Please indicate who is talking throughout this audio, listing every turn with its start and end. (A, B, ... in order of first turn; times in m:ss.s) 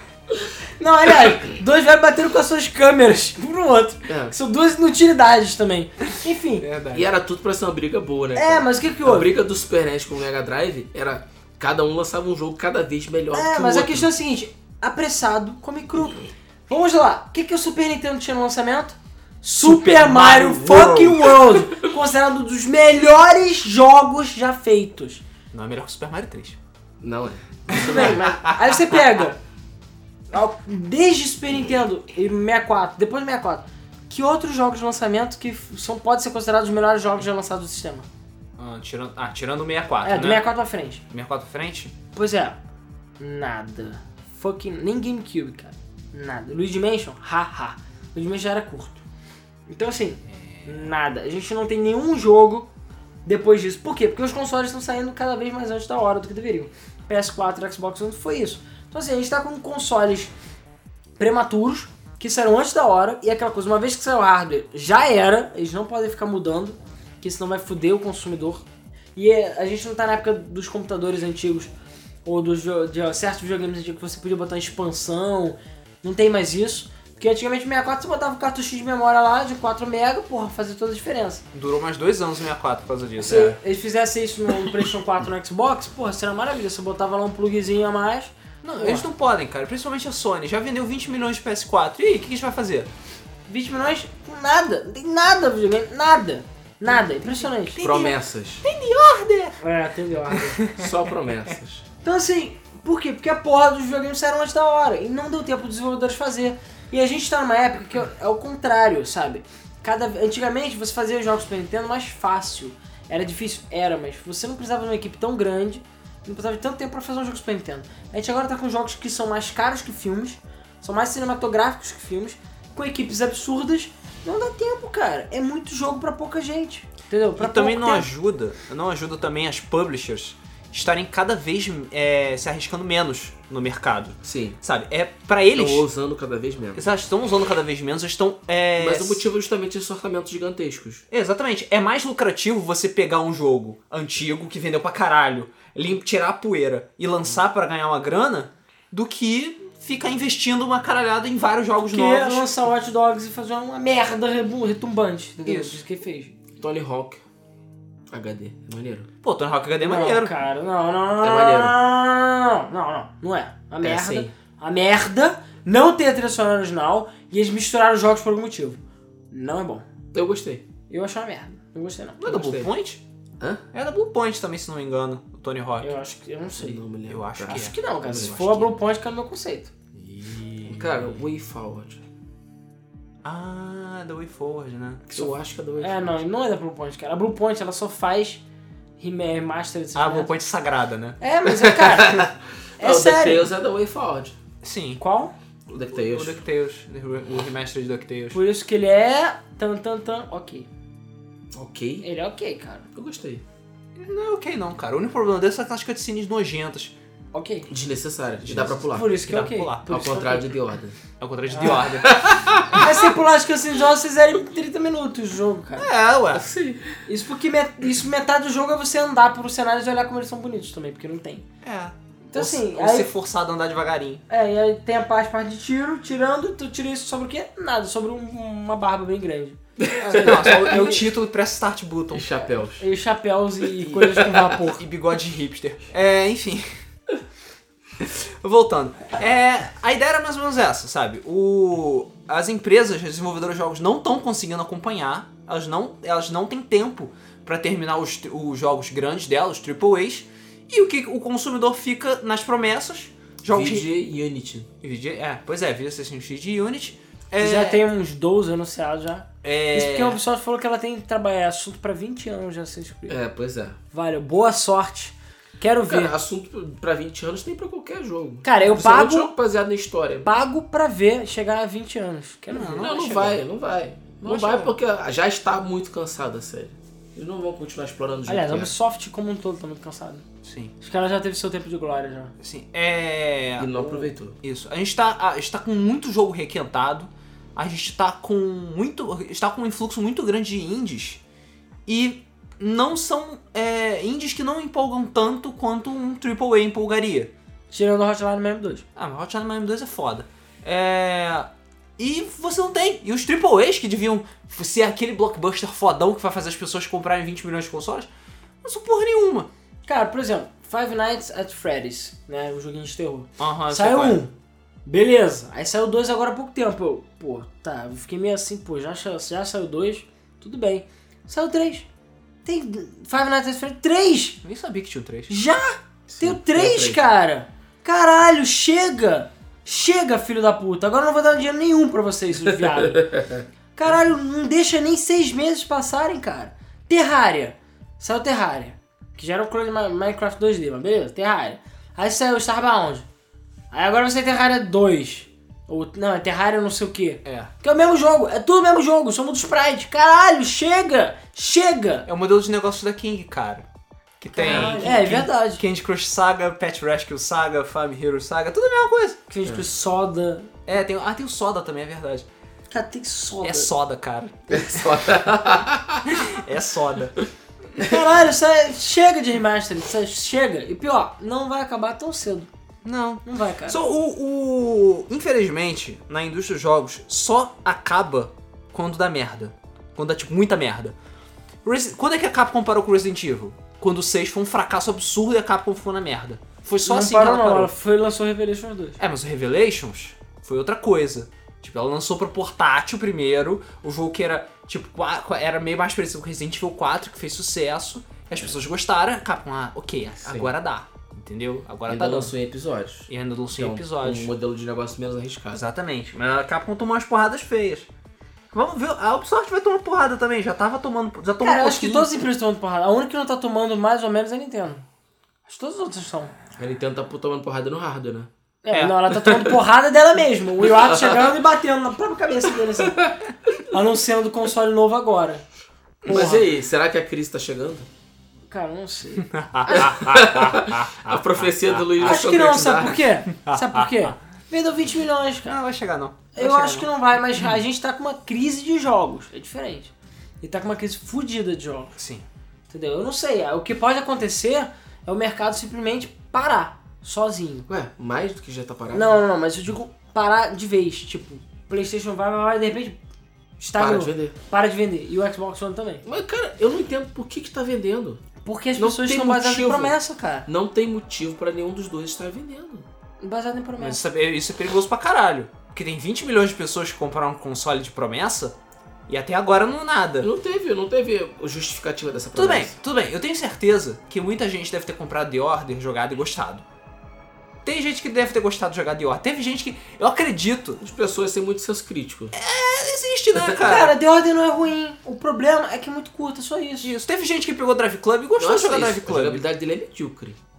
0:00.8-0:06.6 A
0:04.1-0:04.4 B
0:06.6-0:07.1 C
0:06.9-0:14.1 B
0:08.3-0:09.3 A
0:13.3-0:25.2 A
0:19.6-0:21.5 C
0:25.5-0:26.6 C
0:27.0-0:28.3 B
0:27.7-0:29.0 C
0:27.7-0:29.4 A
0:30.3-0:38.1 A
0:38.6-0:40.4 C
0:40.0-0:41.0 A
0:41.1-0:41.9 C
0:42.1-0:42.6 A
0:43.2-0:49.0 A
0:49.7-0:52.7 A
0:50.4-0:50.7 C
0:53.2-1:00.3 A
1:01.2-1:08.6 A
1:09.2-1:11.7 A
1:12.2-1:21.4 A
1:21.5-1:23.6 C
1:23.2-1:29.0 A
1:28.6-1:32.9 C
1:33.5-1:37.8 A
1:37.6-1:39.6 C
1:37.8-1:38.6 B
1:39.6-1:40.6 A
1:40.3-1:40.9 C
1:40.6-1:41.8 B
1:42.0-2:08.1 A
2:07.4-2:15.8 C
2:14.2-2:14.6 B
2:15.5-2:16.9 B
2:16.7-2:19.2 C
2:18.8-2:21.0 B
2:21.1-2:32.5 C
2:31.9-2:36.3 A
2:35.4-2:35.8 C
2:36.6-2:37.2 B
2:38.1-2:39.1 B
2:39.2-2:40.3 C
2:39.8-2:48.8 A
2:41.2-2:41.8 B
2:43.8-2:44.3 B
2:49.3-2:49.8 A
2:50.1-2:50.6 B
2:50.9-2:52.2 A
2:52.2-2:53.0 C
2:52.2-2:52.7 B
2:53.7-2:55.9 C
2:55.8-2:56.8 A
2:56.6-2:58.6 B
2:57.1-2:58.6 C
2:57.4-2:59.7 A
3:00.3-3:00.7 C
3:00.6-3:02.0 B
3:03.2-3:05.3 C
3:05.1-3:06.2 B
3:05.8-3:08.4 A
3:09.0-3:10.3 A
3:09.9-3:11.2 C
3:11.2-3:13.5 A
3:11.5-3:14.4 B
3:14.6-3:15.0 C
3:15.0-3:15.3 A
3:15.7-3:16.4 B
3:15.9-3:18.4 C
3:18.3-3:20.7 A
3:21.5-3:22.1 B
3:22.0-3:22.9 A
3:22.9-3:23.4 B
3:24.0-3:27.0 C
3:27.3-3:27.7 A
3:27.7-3:29.2 B
3:28.7-3:30.6 A
3:29.3-3:30.1 C
3:29.9-3:31.0 B
3:31.2-3:32.8 C
3:31.5-3:31.8 A
3:31.6-3:33.0 B
3:32.7-3:35.9 A
3:35.8-3:36.4 C
3:36.3-3:37.0 B
3:37.0-3:41.4 A
3:41.6-3:44.2 C
3:42.3-3:43.1 A
3:44.3-3:51.0 A
3:49.8-3:51.0 B
3:50.0-3:52.4 C
3:52.1-3:52.8 B
3:52.8-3:54.8 A
3:53.9-3:54.5 B
3:54.6-3:56.7 C
3:58.0-4:13.9 C
4:13.5-4:14.7 B
4:14.8-4:17.8 C
4:17.4-4:23.2 A
4:19.4-4:20.2 C
4:23.1-4:23.8 B
4:23.9-4:26.1 A
4:25.8-4:30.3 B
4:28.4-4:29.3 A
4:30.2-4:33.0 A
4:32.5-4:33.4 C
4:32.8-4:38.7 B
4:34.2-4:34.7 C
4:38.3-4:40.2 A
4:40.4-4:40.7 C
4:40.8-4:42.3 A
4:42.4-4:51.2 C
4:43.6-4:44.4 B
4:51.9-4:57.3 C
4:57.7-4:58.8 A
4:59.0-5:08.1 C
5:08.6-5:09.5 C
5:09.9-5:14.3 A
5:13.4-5:14.2 C
5:14.8-5:21.8 A
5:22.4-5:24.4 A
5:24.4-5:25.3 C
5:25.3-5:33.2 A
5:26.1-5:27.0 B
5:33.1-5:33.4 B
5:33.8-5:43.0 A
5:43.7-5:52.1 A
5:47.2-5:47.5 C
5:52.0-5:53.6 C
5:54.2-5:59.2 C
5:54.3-5:55.6 A
5:54.5-5:54.9 B
5:59.3-6:00.5 A
6:00.6-6:02.3 C
6:02.7-6:03.7 A
6:03.4-6:04.8 C
6:04.5-6:06.2 B
6:06.0-6:07.2 C
6:07.8-6:12.5 A
6:12.8-6:20.9 C
6:13.2-6:13.8 A
6:21.6-6:27.7 C
6:26.8-6:29.0 A
6:29.0-6:42.3 C
6:40.2-6:40.5 B
6:41.9-6:45.6 B
6:43.1-6:44.3 C
6:45.5-6:47.9 C
6:48.5-6:52.1 C
6:51.4-6:54.8 A
6:55.5-6:56.3 A
6:56.6-6:58.3 B
6:58.6-7:03.1 A
6:58.7-6:59.0 C
6:59.2-6:59.5 B
7:00.6-7:01.2 B
7:02.8-7:03.5 B
7:03.7-7:05.4 A
7:06.0-7:06.5 A
7:06.0-7:07.9 B
7:08.5-7:10.0 A
7:09.3-7:12.2 C
7:09.7-7:13.1 B
7:12.0-7:15.6 A
7:13.3-7:14.2 C
7:15.4-7:16.9 C
7:16.3-7:21.9 A
7:22.0-7:22.2 C
7:22.7-7:27.7 A
7:27.7-7:29.2 B
7:28.9-7:33.0 A
7:33.6-7:36.0 A
7:33.8-7:34.4 B
7:36.0-7:38.2 B
7:38.4-7:40.5 A
7:38.8-7:39.9 B
7:40.4-7:42.9 B
7:43.2-7:44.0 A
7:43.8-7:48.6 C
7:49.1-7:50.3 C
7:50.2-7:52.7 B
7:52.3-7:56.6 C
7:57.6-8:00.8 C
8:00.8-8:02.3 B
8:02.3-8:04.0 C
8:03.3-8:03.6 B
8:03.6-8:06.9 A
8:06.8-8:09.4 C
8:08.4-8:10.4 B